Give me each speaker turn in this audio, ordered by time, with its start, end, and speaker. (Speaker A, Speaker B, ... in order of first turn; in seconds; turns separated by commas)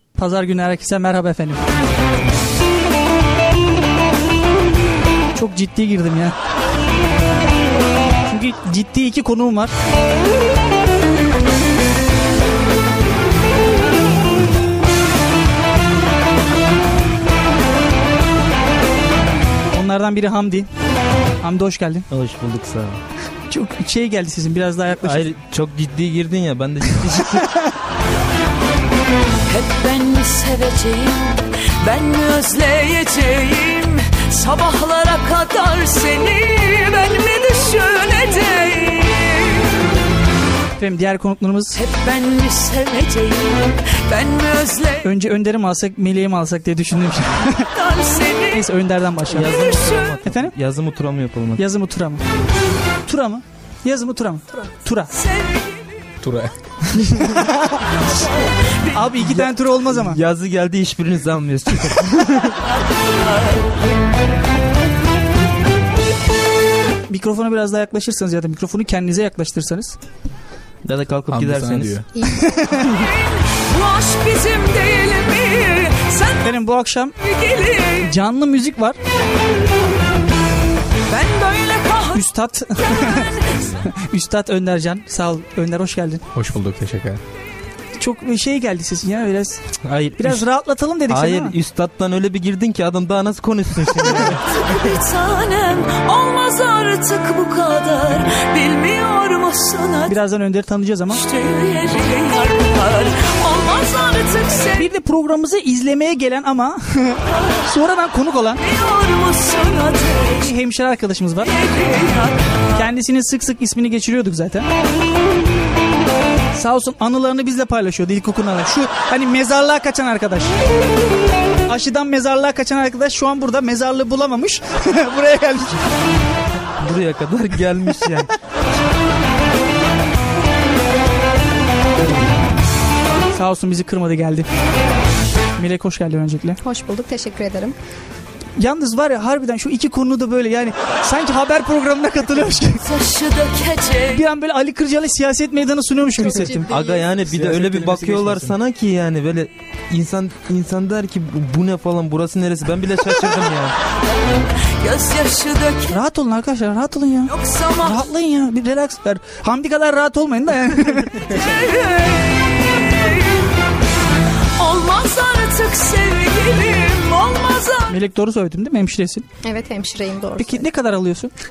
Speaker A: 0.2-1.6, Speaker A: 5.3-6.4, Speaker A: 8.3-9.7, Speaker A: 19.7-20.7, Speaker A: 21.4-22.1, Speaker B: 22.1-23.0, Speaker A: 23.5-25.3, Speaker B: 24.9-27.5, Speaker A: 27.4-27.7, Speaker C: 29.5-39.7, Speaker A: 40.8-41.8, Speaker C: 41.7-45.0, Speaker A: 45.0-47.7, Speaker C: 47.8-48.6, Speaker A: 48.5-49.6, Speaker B: 49.3-51.6, Speaker C: 49.7-50.0, Speaker A: 50.2-50.5, Speaker A: 51.6-52.2, Speaker A: 53.1-55.1, Speaker C: 55.2-55.7, Speaker D: 56.2-56.5, Speaker A: 57.0-57.8, Speaker A: 58.9-60.2, Speaker B: 59.2-62.6, Speaker A: 67.1-70.0, Speaker B: 70.8-72.0, Speaker D: 71.3-72.1, Speaker E: 72.2-72.7, Speaker A: 72.3-72.9, Speaker C: 73.5-76.5, Speaker A: 76.4-77.2, Speaker C: 77.2-78.1, Speaker A: 78.0-79.0, Speaker C: 81.1-82.2, Speaker A: 82.1-83.3, Speaker D: 83.5-83.8, Speaker A: 83.8-86.2, Speaker D: 86.3-87.2, Speaker A: 88.0-89.6, Speaker B: 89.8-90.5, Speaker A: 90.2-91.6, Speaker B: 91.1-94.4, Speaker C: 94.5-100.2, Speaker A: 100.1-101.2, Speaker C: 101.1-104.9, Speaker A: 104.8-108.6, Speaker C: 108.6-110.5, Speaker A: 110.4-111.5, Speaker C: 111.5-112.5, Speaker A: 112.7-114.7, Speaker A: 116.5-120.5, Speaker A: 121.7-125.8, Speaker B: 126.8-128.3, Speaker A: 133.3-134.5, Speaker A: 135.6-136.6, Speaker E: 136.6-137.8, Speaker A: 138.6-142.8, Speaker C: 142.8-144.2, Speaker A: 144.1-146.7, Speaker E: 146.2-147.1, Speaker B: 146.7-153.8, Speaker D: 147.2-148.6, Speaker C: 154.8-156.0, Speaker A: 155.9-161.3, Speaker C: 157.3-158.1, Speaker C: 161.3-163.2, Speaker C: 164.6-167.9, Speaker A: 167.9-169.3, Speaker E: 169.4-170.6, Speaker A: 170.4-171.3